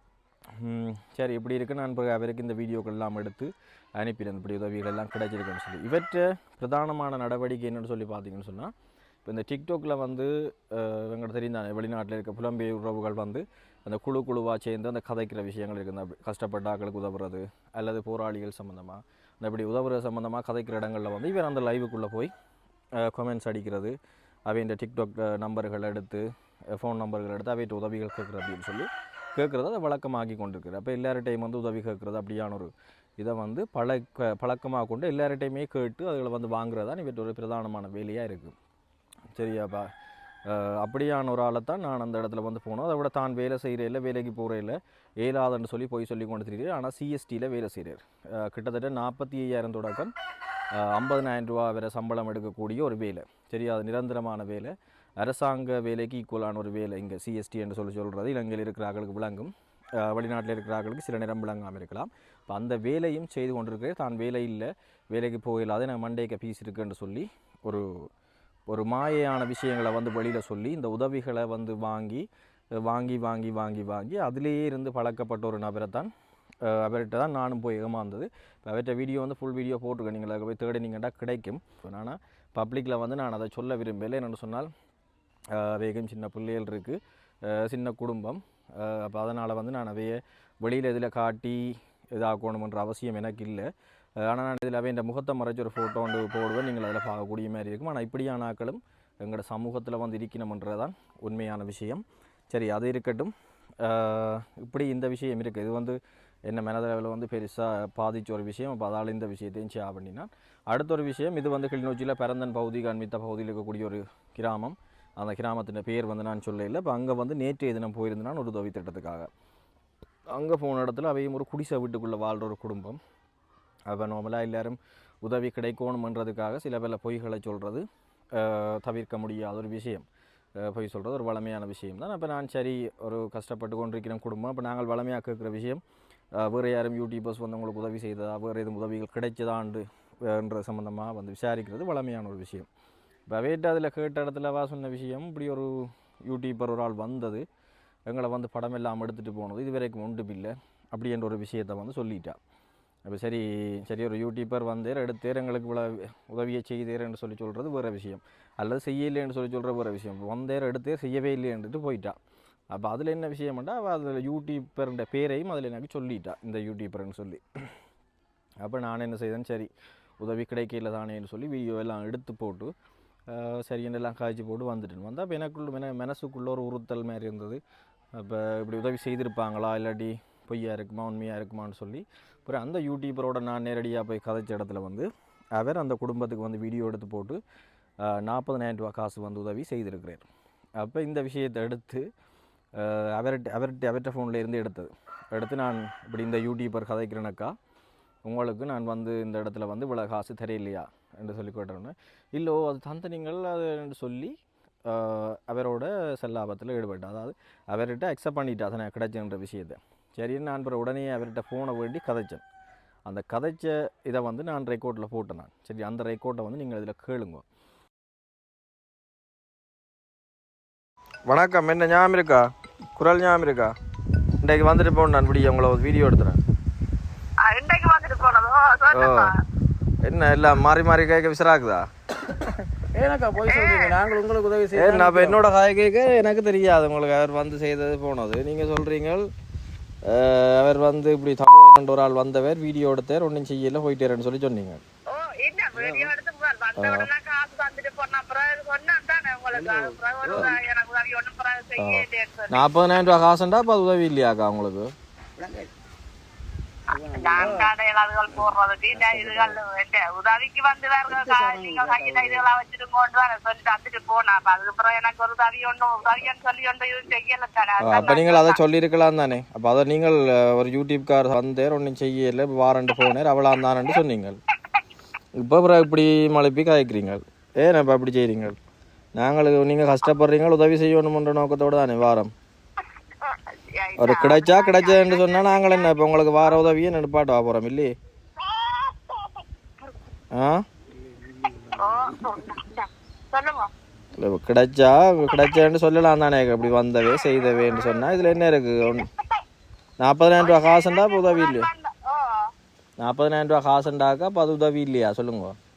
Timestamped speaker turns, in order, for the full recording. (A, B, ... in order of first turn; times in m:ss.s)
0:00.6-0:08.7 A
0:09.2-0:22.3 A
0:23.0-0:24.0 A
0:24.5-0:38.5 A
0:39.4-0:39.9 A
0:40.5-0:50.1 A
0:50.7-1:07.9 A
1:08.7-1:12.3 A
1:12.8-1:16.1 A
1:16.6-1:24.7 A
1:25.5-1:33.7 A
1:34.2-1:43.3 A
1:43.8-1:46.0 A
1:46.5-1:59.3 A
2:00.3-2:03.0 A
2:03.9-2:10.0 A
2:10.6-2:15.8 A
2:16.4-2:22.7 A
2:23.3-2:27.4 A
2:28.1-2:32.4 A
2:33.1-2:42.2 A
2:42.7-2:47.7 A
2:48.6-2:52.7 A
2:53.3-2:57.6 A
2:58.2-3:07.4 A
3:08.0-3:10.2 A
3:10.8-3:12.0 A
3:12.8-3:17.5 A
3:18.3-3:24.4 A
3:24.9-3:32.4 A
3:33.1-3:37.4 A
3:41.3-3:42.4 A
3:43.0-3:43.7 A
3:44.4-3:46.4 A
3:47.4-3:49.3 B
3:48.9-3:49.3 A
3:50.0-3:51.8 A
3:52.8-3:55.4 C
3:53.4-3:54.0 B
3:54.7-3:59.3 A
4:00.1-4:04.8 A
4:05.1-4:12.6 B
4:05.8-4:06.1 C
4:06.8-4:07.1 A
4:09.5-4:10.5 C
4:11.8-4:14.9 A
4:15.4-4:15.7 C
4:16.9-4:17.7 C
4:17.1-4:28.6 B
4:19.0-4:19.5 C
4:21.1-4:22.4 C
4:27.8-4:34.4 A
4:35.4-4:38.6 A
4:39.2-4:42.3 A
4:43.2-4:46.6 B
4:44.0-4:47.9 A
4:48.4-4:49.4 B
4:50.3-4:50.6 A
4:51.0-4:52.3 C
4:51.7-4:53.7 B
4:54.2-4:59.1 A
4:55.3-4:55.6 B
4:57.1-4:58.2 B
4:58.8-4:59.4 B
5:00.0-5:01.7 A
5:00.4-5:02.4 B
5:03.0-5:05.6 A